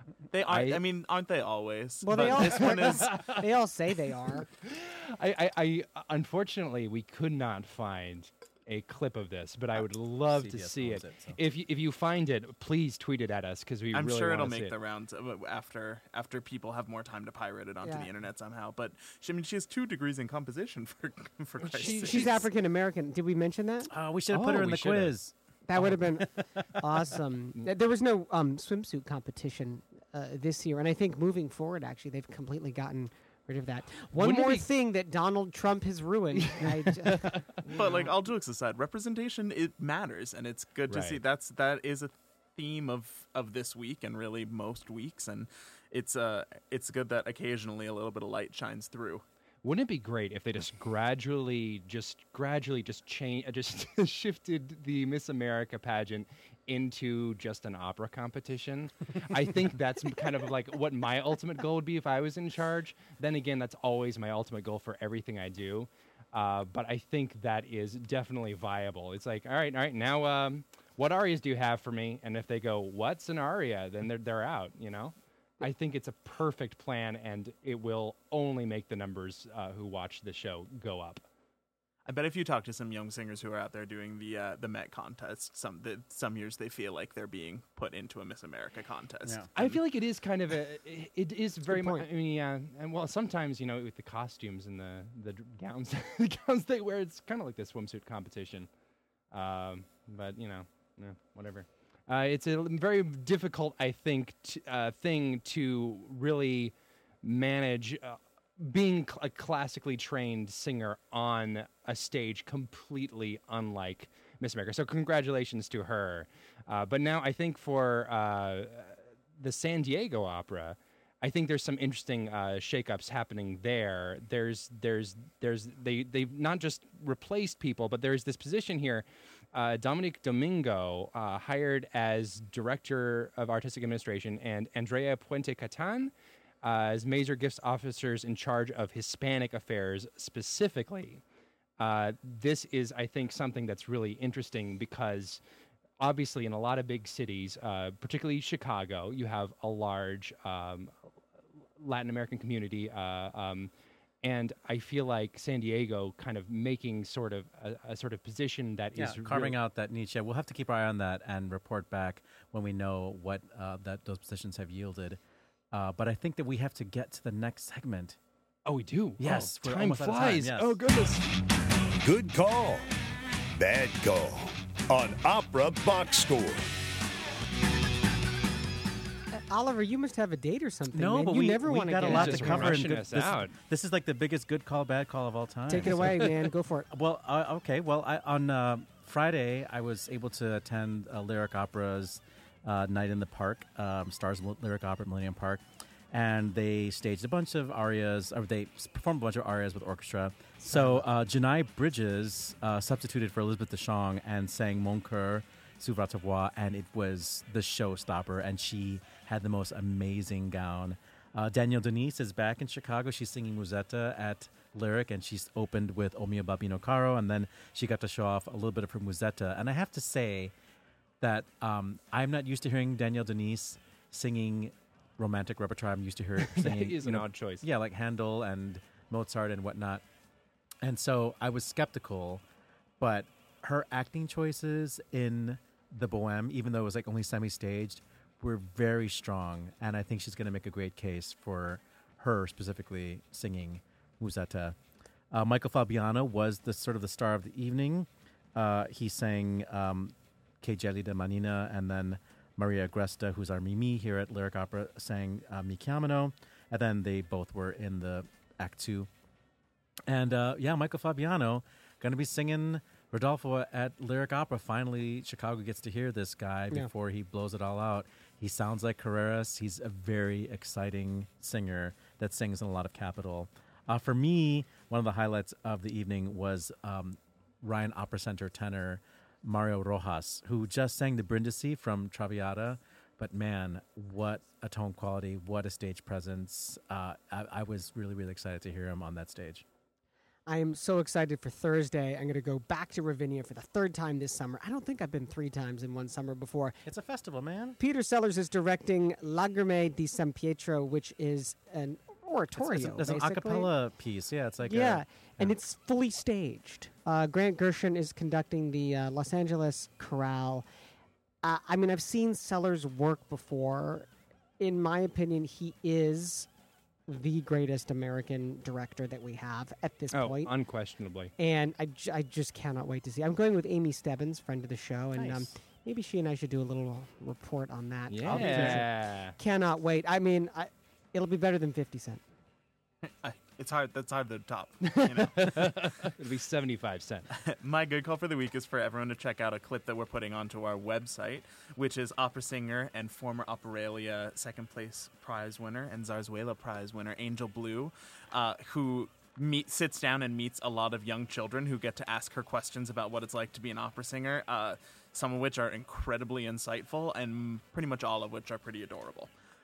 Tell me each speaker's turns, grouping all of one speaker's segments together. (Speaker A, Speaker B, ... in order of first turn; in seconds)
Speaker A: 0.3-3.2, 13.9-22.4, 37.7-49.2, 82.1-89.8, 333.1-336.1, 337.4-359.3
Speaker B: 0.5-0.8, 2.1-3.5, 4.5-14.8, 21.6-22.5, 24.3-25.1, 34.2-34.7, 36.4-38.1, 40.9-41.2, 49.6-81.2, 89.5-98.7, 99.3-136.1, 136.6-141.2, 141.8-145.4, 146.0-151.1, 151.8-153.7, 154.2-159.6, 168.7-171.2, 182.0-183.5, 226.4-227.7, 320.1-321.3, 325.2-325.4, 328.1-329.4, 334.8-337.3
Speaker C: 2.0-4.5, 17.8-18.1, 21.9-23.9, 25.7-38.1, 91.7-92.1, 179.3-182.8, 185.7-186.9, 200.6-201.0, 290.5-296.8, 297.8-303.7, 304.6-310.7, 311.4-314.1, 314.6-316.5, 317.1-320.5, 321.4-332.2
Speaker D: 10.3-11.4, 23.9-26.8, 159.0-165.2, 165.7-168.2, 169.2-170.8, 180.9-186.3, 186.9-220.5, 221.2-230.0, 230.8-232.4, 233.0-244.8, 245.3-259.1, 260.1-289.6, 296.9-297.8, 302.6-305.5, 328.3-328.8
Speaker E: 172.0-172.9, 173.6-176.7